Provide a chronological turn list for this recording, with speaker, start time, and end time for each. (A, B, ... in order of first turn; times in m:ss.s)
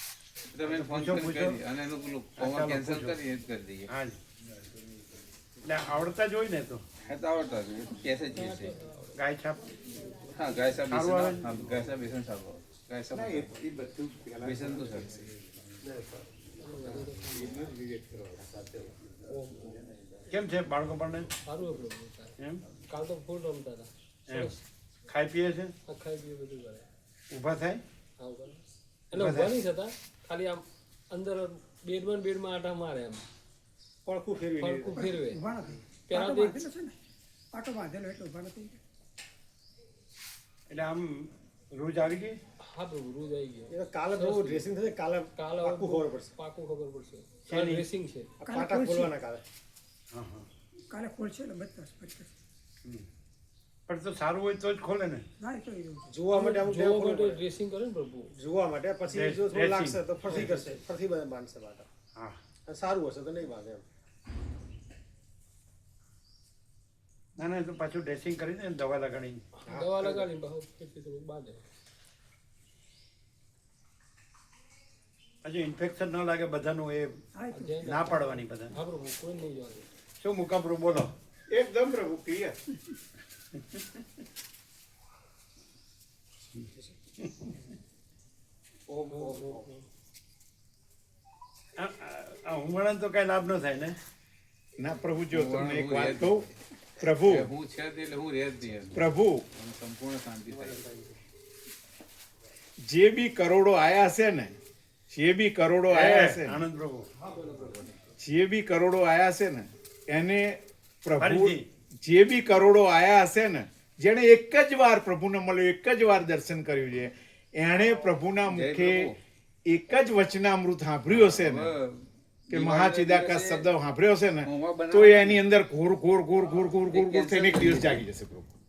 0:00.5-0:03.9 A
0:00.7-0:01.6 B
0:02.4-0:03.2 B
0:03.9-0:04.2 B
0:05.6-0:06.8 B
0:07.0-0:08.8 A
0:08.4-0:09.1 C
0:09.2-0:09.6 B
0:10.3-0:13.5 A
0:10.9-0:11.5 B
0:13.1-0:15.3 D
0:14.4-0:15.3 A
0:16.6-0:17.7 C
0:16.8-0:18.4 D
0:18.4-0:18.9 A
0:20.3-0:21.3 B
0:21.5-0:22.4 C
0:22.9-0:24.6 C
0:25.1-0:25.7 B
0:25.9-0:26.9 C
0:27.3-0:27.8 B
0:28.2-0:28.6 C
0:29.1-0:33.2 C
0:29.1-0:29.5 B
0:34.1-0:35.0 E
0:34.6-0:35.4 C
0:34.9-0:37.0 F
0:36.1-0:36.6 C
0:37.5-0:38.8 F
0:40.7-0:42.4 B
0:42.6-0:44.7 C
0:43.7-0:46.3 E
0:45.4-0:48.4 C
0:47.5-0:47.8 B
0:48.4-0:49.4 E
0:48.5-0:49.1 F
0:50.1-0:50.5 B
0:50.9-0:52.3 F
0:53.9-0:55.2 B
0:55.4-0:56.1 F
0:56.1-0:57.4 E
0:56.3-0:58.3 C
0:58.4-1:01.9 E
0:59.1-1:00.7 B
1:02.7-1:03.8 E
1:07.4-1:09.4 B
1:09.6-1:11.6 C
1:09.7-1:10.3 E
1:15.4-1:17.2 B
1:17.4-1:18.1 F
1:17.5-1:19.8 C
1:17.8-1:18.7 B
1:20.2-1:21.1 B
1:21.5-1:22.6 D
1:27.2-1:27.5 B
1:28.9-1:29.7 E
1:31.8-1:34.0 B
1:34.8-1:36.5 D
1:35.3-1:36.5 A
1:37.0-1:37.5 D
1:37.1-1:40.8 A
1:38.9-1:39.4 D
1:42.8-1:44.6 D
1:45.1-1:46.6 D
1:45.9-1:47.1 B
1:48.2-1:59.1 D
1:51.2-1:51.7 B
1:58.5-1:59.2 A
1:59.7-2:01.7 D
2:01.1-2:03.7 A
2:02.5-2:08.5 D
2:04.4-2:05.4 A
2:06.9-2:08.0 A